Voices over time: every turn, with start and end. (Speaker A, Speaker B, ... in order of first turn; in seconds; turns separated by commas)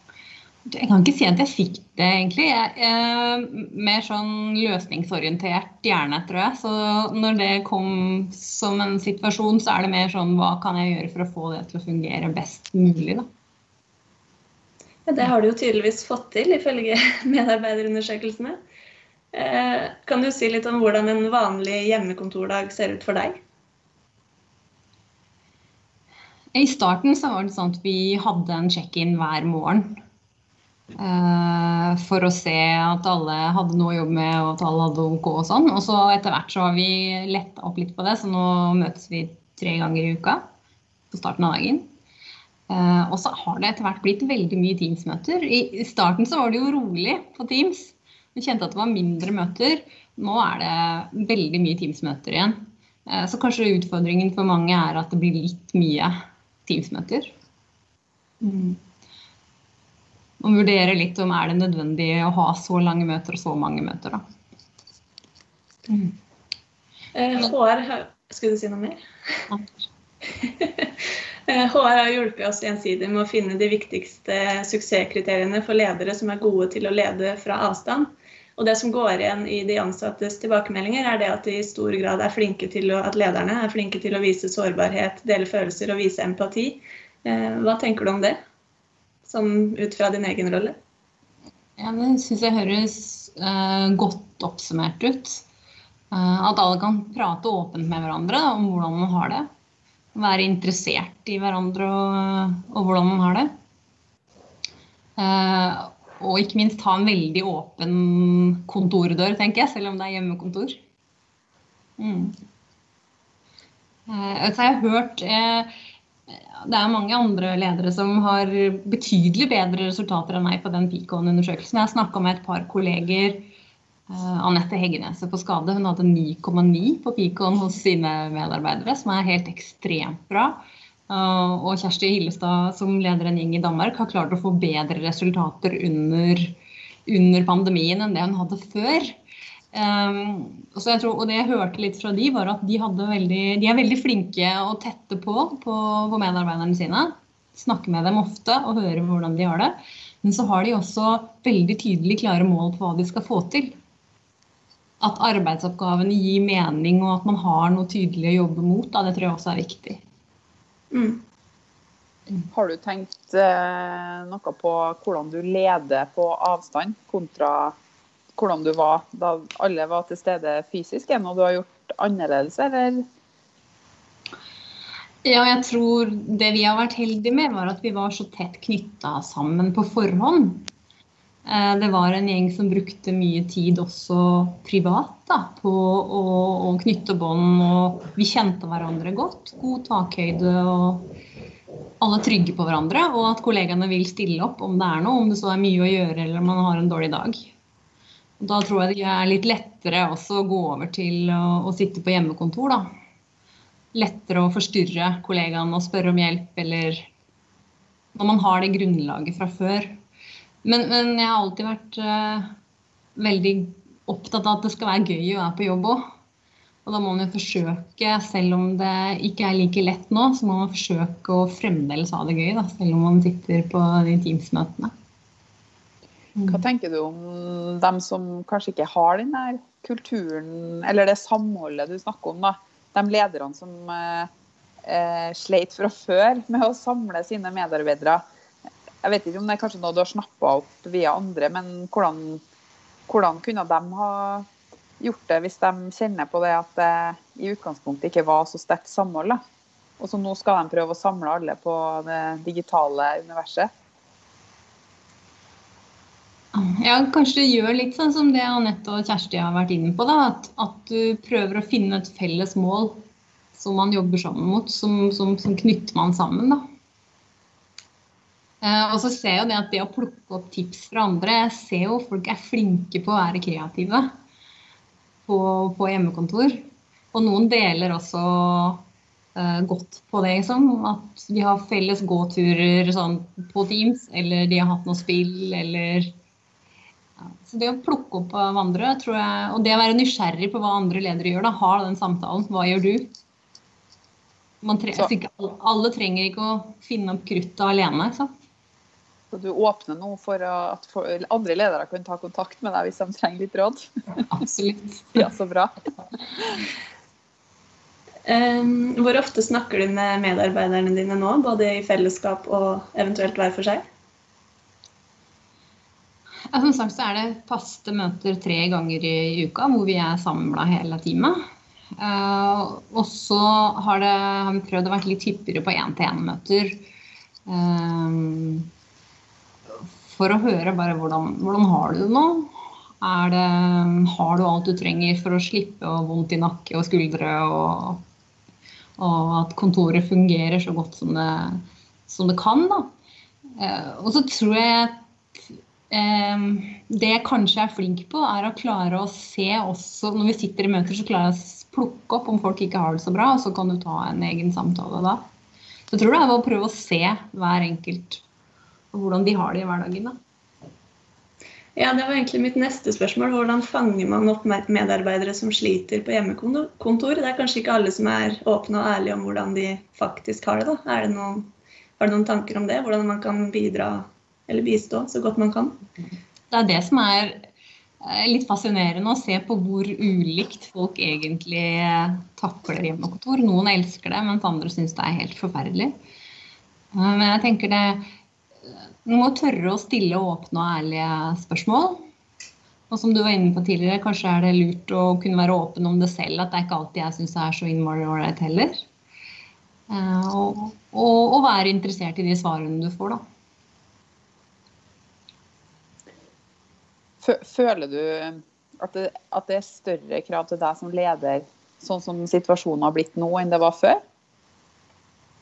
Speaker A: 0.7-13.2, Speaker B: 15.1-18.6, Speaker B: 19.3-23.4, Speaker A: 26.5-30.0, Speaker A: 31.0-40.4, Speaker A: 41.1-41.9, Speaker A: 42.7-56.1, Speaker A: 56.6-57.3, Speaker A: 58.4-58.8, Speaker A: 60.4-64.2, Speaker B: 67.1-69.0, Speaker B: 70.4-70.9, Speaker B: 71.5-88.4, Speaker B: 89.2-90.8, Speaker A: 91.8-95.4, Speaker A: 96.1-99.5, Speaker A: 100.1-103.5, Speaker A: 105.2-110.8, Speaker A: 112.0-112.3, Speaker A: 114.1-115.7, Speaker A: 116.3-123.5, Speaker A: 124.1-139.2, Speaker A: 139.7-153.7, Speaker A: 155.0-160.0, Speaker B: 160.9-161.2, Speaker C: 162.5-167.7, Speaker C: 168.3-173.0, Speaker A: 175.2-180.7, Speaker A: 181.4-191.1, Speaker A: 192.0-197.5, Speaker A: 198.4-202.8, Speaker A: 203.9-207.0, Speaker A: 208.1-209.9, Speaker A: 210.6-212.5, Speaker A: 213.2-216.0, Speaker A: 216.8-224.9, Speaker A: 226.3-226.6, Speaker C: 226.5-234.3, Speaker C: 234.8-238.2, Speaker C: 239.0-242.4, Speaker C: 243.1-244.5, Speaker C: 245.0-249.4, Speaker C: 250.0-253.7, Speaker A: 256.5-266.6, Speaker A: 268.6-274.1, Speaker A: 275.2-276.6, Speaker A: 277.1-278.8, Speaker A: 279.3-286.1, Speaker A: 287.2-293.1, Speaker A: 294.6-298.3, Speaker C: 299.3-304.2, Speaker A: 304.2-305.2, Speaker C: 305.1-305.7, Speaker B: 308.3-313.8, Speaker A: 316.5-321.4, Speaker A: 322.0-326.8, Speaker A: 327.5-328.7, Speaker A: 330.0-338.0, Speaker A: 339.0-342.9, Speaker A: 343.6-345.0, Speaker A: 345.9-355.2, Speaker A: 355.9-358.2, Speaker A: 358.9-360.1, Speaker B: 361.8-375.8, Speaker A: 376.5-377.5, Speaker A: 378.0-385.9, Speaker A: 386.9-388.0, Speaker A: 389.0-392.0, Speaker A: 392.9-398.9, Speaker A: 399.9-403.2, Speaker C: 407.2-414.0